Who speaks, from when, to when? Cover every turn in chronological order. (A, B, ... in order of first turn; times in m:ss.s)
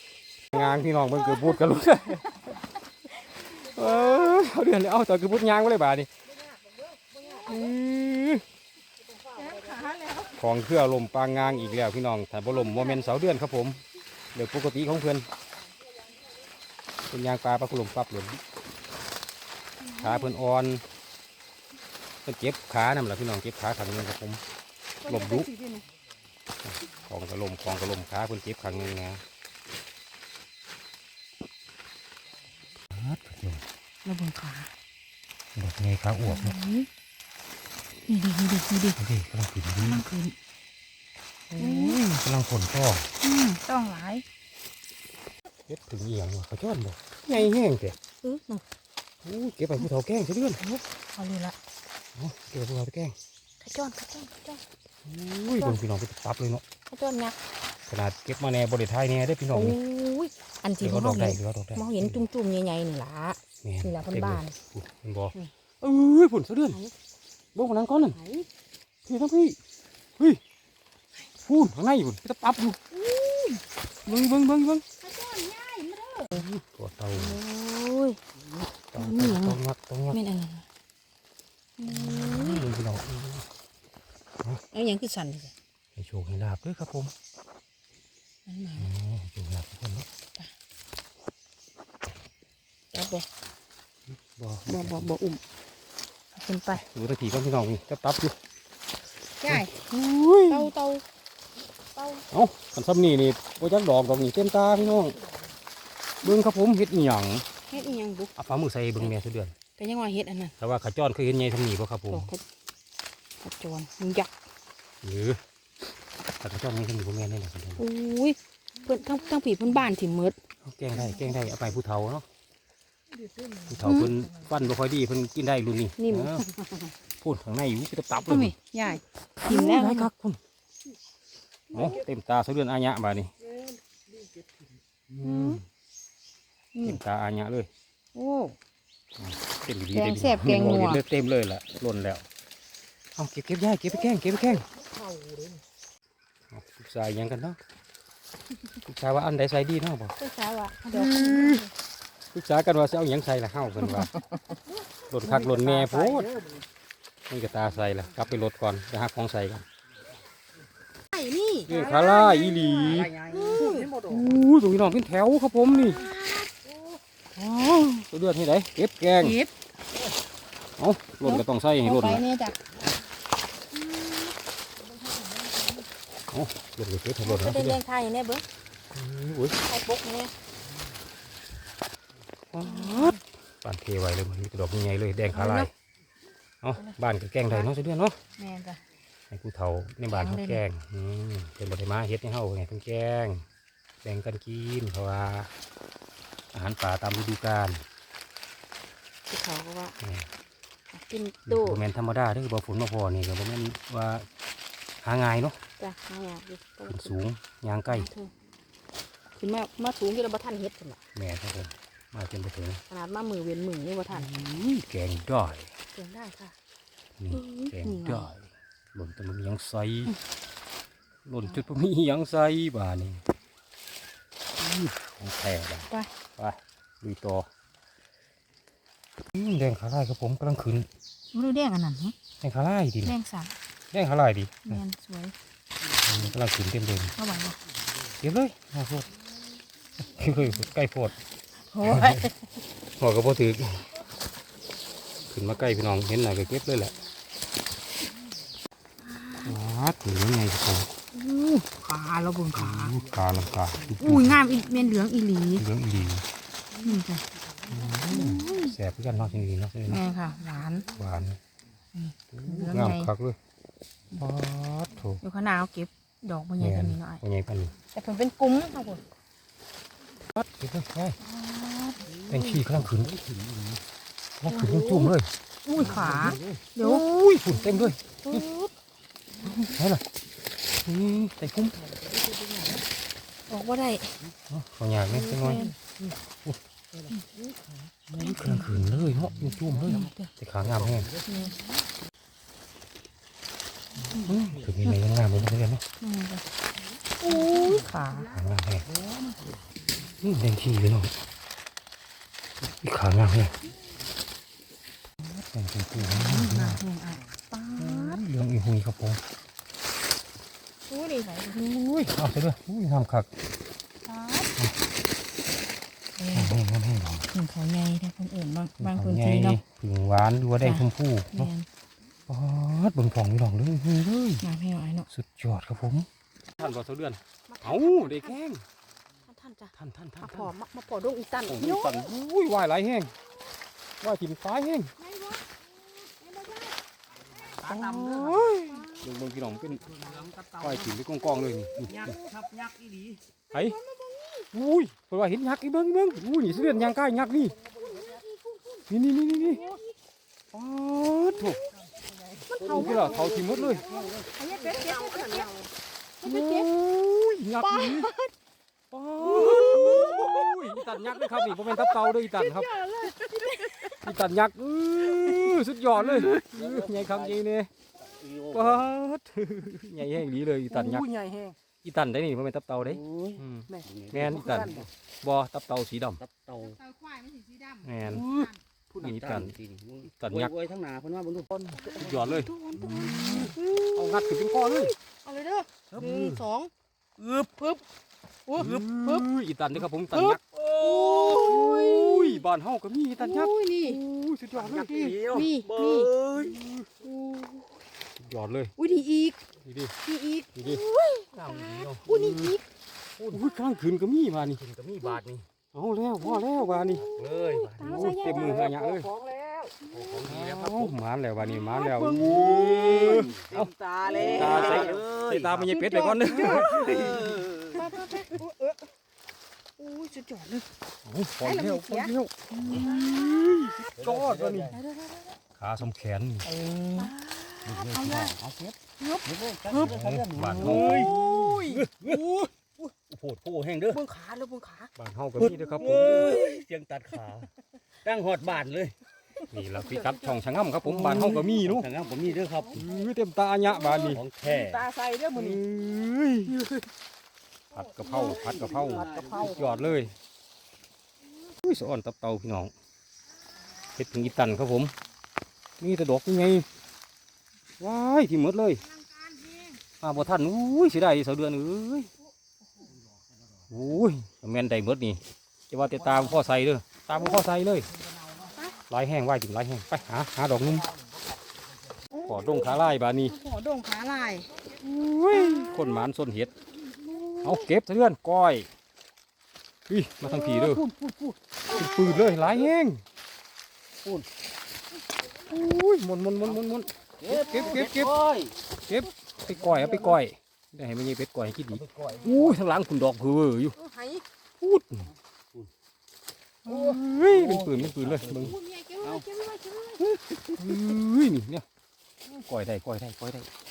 0:00.5-0:02.3 A
0:00.7-0:01.6 B
0:03.5-0:06.1 A
0:07.2-0:07.8 B
0:07.4-0:08.4 A
0:09.2-0:10.4 B
0:10.3-0:13.8 A
0:12.6-0:12.9 B
0:14.3-0:15.3 A
0:17.1-0:18.4 A
0:19.8-0:20.3 B
0:20.0-0:20.8 A
0:22.2-0:24.4 A
0:25.0-0:25.8 B
0:25.0-0:25.5 A
0:26.6-0:29.2 A
0:32.9-0:33.6 A
0:34.0-0:34.7 B
0:35.6-0:36.6 A
0:36.3-0:36.9 B
0:38.1-0:39.0 B
0:39.0-0:40.1 A
0:39.8-0:40.4 B
0:41.5-0:43.1 A
0:41.6-0:42.0 B
0:43.2-0:44.2 B
0:45.7-0:48.0 A
0:48.2-0:48.6 B
0:49.2-0:50.6 A
0:50.6-0:51.6 B
0:52.2-0:53.1 A
0:53.6-0:54.6 B
0:55.0-0:56.6 A
0:56.9-0:57.4 B
0:57.9-0:59.8 A
0:59.5-1:04.6 B
1:00.8-1:02.3 A
1:03.6-1:06.8 A
1:07.6-1:08.2 A
1:08.1-1:08.5 B
1:09.0-1:09.6 A
1:11.4-1:12.8 A
1:12.9-1:13.6 B
1:14.1-1:14.8 A
1:15.0-1:16.5 B
1:16.3-1:17.4 A
1:17.1-1:18.2 B
1:18.9-1:20.2 A
1:19.0-1:19.6 B
1:20.1-1:20.6 B
1:21.8-1:22.7 B
1:21.8-1:23.5 A
1:24.7-1:25.5 B
1:26.0-1:27.1 A
1:28.5-1:28.9 B
1:28.8-1:30.1 A
1:32.9-1:33.2 B
1:34.1-1:35.1 A
1:34.7-1:35.4 B
1:36.4-1:36.8 B
1:36.7-1:38.4 A
1:39.4-1:39.8 B
1:39.4-1:40.7 A
1:40.5-1:41.0 B
1:42.0-1:42.2 B
1:42.3-1:45.2 A
1:46.2-1:47.5 A
1:47.7-1:48.3 B
1:48.4-1:49.6 A
1:49.8-1:50.5 B
1:50.6-1:52.3 A
1:52.1-1:52.4 B
1:53.4-1:54.3 B
1:55.0-1:55.4 A
1:56.4-1:57.8 A
1:57.8-2:00.4 B
2:00.6-2:02.2 A
2:03.7-2:06.4 A
2:03.8-2:04.1 B
2:06.0-2:06.5 B
2:07.2-2:08.5 A
2:08.3-2:10.1 B
2:09.4-2:10.4 A
2:11.7-2:13.3 A
2:15.1-2:15.6 A
2:15.2-2:15.6 B
2:16.7-2:17.0 B
2:16.8-2:17.7 A
2:18.2-2:18.6 B
2:19.2-2:22.3 A
2:19.9-2:21.0 B
2:23.2-2:24.6 A
2:25.0-2:25.5 B
2:26.5-2:27.6 A
2:28.8-2:30.2 A
2:30.2-2:31.7 B
2:30.9-2:31.6 A
2:32.3-2:34.1 A
2:33.8-2:34.6 B
2:35.1-2:36.3 A
2:35.6-2:36.5 C
2:37.3-2:39.6 A
2:41.1-2:44.0 B
2:41.7-2:43.1 A
2:42.8-2:44.2 C
2:44.0-2:46.0 A
2:45.7-2:46.7 B
2:47.4-2:49.4 A
2:49.2-2:49.5 B
2:50.8-2:52.2 A
2:51.2-2:52.6 B
2:53.7-2:54.3 B
2:56.3-2:57.8 A
2:57.2-2:58.4 B
2:58.9-2:59.6 A
2:59.6-3:00.3 B
3:02.5-3:05.7 A
3:02.6-3:03.2 B
3:05.3-3:05.7 B
3:06.6-3:08.2 A
3:06.8-3:07.7 B
3:08.4-3:08.8 B
3:09.3-3:13.4 A
3:10.1-3:10.6 B
3:14.0-3:15.5 A
3:16.5-3:17.8 A
3:19.3-3:20.0 B
3:20.0-3:20.3 A
3:20.9-3:21.8 B
3:21.5-3:24.3 A
3:25.0-3:25.6 A
3:25.8-3:27.2 B
3:26.9-3:28.1 A
3:27.9-3:28.3 B
3:29.4-3:31.0 B
3:31.2-3:32.8 A
3:32.9-3:34.3 B
3:34.1-3:35.7 A
3:35.9-3:36.6 B
3:37.2-3:40.1 A
3:37.3-3:38.3 B
3:41.3-3:43.2 A
3:44.6-3:47.5 A
3:49.3-3:50.9 A
3:51.3-3:52.2 B
3:52.4-3:53.2 A
3:53.0-3:53.5 B
3:53.9-3:54.8 A
3:54.7-3:55.3 B
3:56.0-3:57.2 A
3:57.2-3:57.6 B
3:58.2-3:59.1 A
4:00.2-4:01.1 A
4:01.7-4:02.4 B
4:01.8-4:02.3 A
4:03.0-4:03.9 A
4:05.3-4:06.9 A
4:09.0-4:09.6 B
4:09.4-4:10.9 A
4:11.1-4:13.0 B
4:12.5-4:14.4 A
4:14.0-4:15.7 B
4:15.6-4:16.2 A
4:16.8-4:17.2 B
4:17.7-4:20.0 A
4:18.0-4:18.8 B
4:19.9-4:20.9 B
4:20.9-4:21.4 A
4:22.0-4:23.1 B
4:22.3-4:23.4 A
4:24.2-4:25.2 A
4:25.2-4:27.2 B
4:26.6-4:27.7 A
4:27.9-4:29.0 B
4:30.3-4:31.2 A
4:31.2-4:32.1 B
4:32.2-4:33.8 C
4:32.3-4:33.1 A
4:34.4-4:35.3 A
4:34.5-4:38.7 B
4:35.8-4:36.6 C
4:35.9-4:36.3 A
4:36.8-4:38.4 A
4:39.4-4:39.8 B
4:39.4-4:40.0 A
4:40.8-4:41.8 A
4:43.5-4:44.2 B
4:44.5-4:46.6 A
4:45.1-4:45.7 B
4:48.1-4:51.1 A
4:48.2-4:48.7 B
4:49.9-4:50.3 B
4:50.6-4:51.2 C
4:51.3-4:51.6 B
4:54.1-4:55.8 A
4:56.0-4:56.4 B
4:57.2-4:58.4 B
4:58.3-4:58.9 A
5:00.2-5:01.2 A
5:02.6-5:03.6 A
5:05.2-5:06.8 A
5:06.0-5:08.2 B
5:07.8-5:09.2 A
5:10.9-5:11.7 B
5:11.5-5:13.3 A
5:14.0-5:14.5 B
5:16.2-5:16.6 B
5:16.3-5:17.3 A
5:17.3-5:19.6 B
5:18.8-5:21.5 A
5:20.6-5:21.7 B
5:22.3-5:24.5 A
5:24.4-5:25.1 B
5:25.1-5:26.1 A
5:26.6-5:28.6 A
5:27.5-5:28.4 B
5:29.3-5:32.1 B
5:29.7-5:30.5 A
5:31.5-5:33.1 A
5:34.0-5:34.9 A
5:35.0-5:36.8 B
5:37.5-5:38.5 C
5:37.6-5:39.9 A
5:38.3-5:39.1 B
5:39.8-5:40.9 C
5:40.6-5:42.1 A
5:41.8-5:42.1 B
5:41.9-5:43.2 C
5:43.5-5:43.8 A
5:43.5-5:44.5 B
5:44.5-5:47.6 A
5:47.7-5:49.9 B
5:48.9-5:49.6 A
5:50.5-5:51.6 A
5:52.5-5:55.7 B
5:52.6-5:54.3 C
5:52.6-5:53.9 A
5:56.2-5:56.7 B
5:56.2-5:58.1 A
5:57.6-5:58.3 B
5:58.9-6:02.8 A
5:59.2-6:04.0 B
6:04.0-6:07.7 A
6:05.2-6:05.5 B
6:06.4-6:07.4 C
6:08.0-6:08.9 C
6:08.5-6:11.1 A
6:11.8-6:16.2 A
6:12.8-6:14.9 C
6:16.2-6:16.8 C
6:16.6-6:18.5 B
6:17.8-6:18.3 A
6:18.9-6:21.9 C
6:19.0-6:19.6 A
6:20.1-6:20.6 A
6:21.7-6:27.8 B
6:21.9-6:24.9 A
6:26.0-6:26.3 C
6:28.5-6:29.3 B
6:28.6-6:30.4 A
6:29.8-6:32.4 B
6:30.6-6:31.5 C
6:31.1-6:35.2 A
6:33.2-6:34.0 B
6:34.5-6:36.6 C
6:35.2-6:36.1 B
6:36.4-6:36.9 A
6:37.0-6:37.8 B
6:38.2-6:38.7 A
6:38.8-6:39.4 B
6:39.6-6:39.9 A
6:40.0-6:42.6 B
6:40.5-6:40.8 A
6:41.3-6:42.5 C
6:43.3-6:44.6 A
6:44.5-6:45.5 C
6:45.7-6:47.0 A
6:46.2-6:48.7 B
6:47.0-6:51.0 C
6:47.8-6:49.1 A
6:49.9-6:50.2 B
6:50.2-6:57.1 A
6:51.4-6:53.4 B
6:52.2-6:55.7 C
6:54.0-6:55.0 B
6:55.7-6:58.8 B
6:56.5-6:57.8 C
6:59.8-7:00.6 B
7:01.0-7:04.7 A
7:01.4-7:03.4 B
7:04.0-7:04.8 C
7:04.7-7:05.4 B
7:05.6-7:06.5 A
7:06.4-7:08.3 B
7:07.6-7:14.0 C
7:09.0-7:10.0 B
7:09.8-7:11.4 A
7:10.5-7:12.5 B
7:13.9-7:14.9 B
7:15.0-7:16.4 A
7:15.4-7:16.6 B
7:15.8-7:17.5 C
7:18.0-7:19.0 C
7:19.5-7:21.9 A
7:19.7-7:20.3 B
7:20.8-7:21.5 B
7:21.5-7:22.8 C
7:22.8-7:24.2 A
7:23.9-7:24.2 B
7:24.1-7:24.9 C
7:25.0-7:25.3 B
7:25.3-7:26.6 A
7:26.5-7:26.8 B
7:27.7-7:30.2 A
7:28.0-7:29.7 B
7:28.2-7:29.8 C
7:31.6-7:32.7 A
7:33.9-7:34.9 A
7:35.8-7:36.7 A
7:37.8-7:38.8 A
7:40.0-7:42.1 A
7:43.7-7:47.9 A
7:48.9-7:50.9 A
7:52.1-7:54.5 B
7:52.3-7:53.4 A
7:54.8-7:56.5 A
7:55.3-7:56.1 B
7:57.1-7:57.6 B
7:57.4-7:58.7 A
7:59.9-8:00.8 A
8:00.4-8:02.6 C
8:01.7-8:03.0 A
8:05.5-8:08.2 A
8:07.2-8:08.6 C
8:08.8-8:13.8 A
8:09.5-8:10.2 C
8:11.7-8:12.6 C
8:12.1-8:12.4 B
8:13.8-8:14.2 B
8:14.6-8:15.1 A
8:16.7-8:18.6 A
8:17.3-8:19.2 C
8:18.4-8:20.9 B
8:20.6-8:21.7 A
8:22.3-8:23.5 A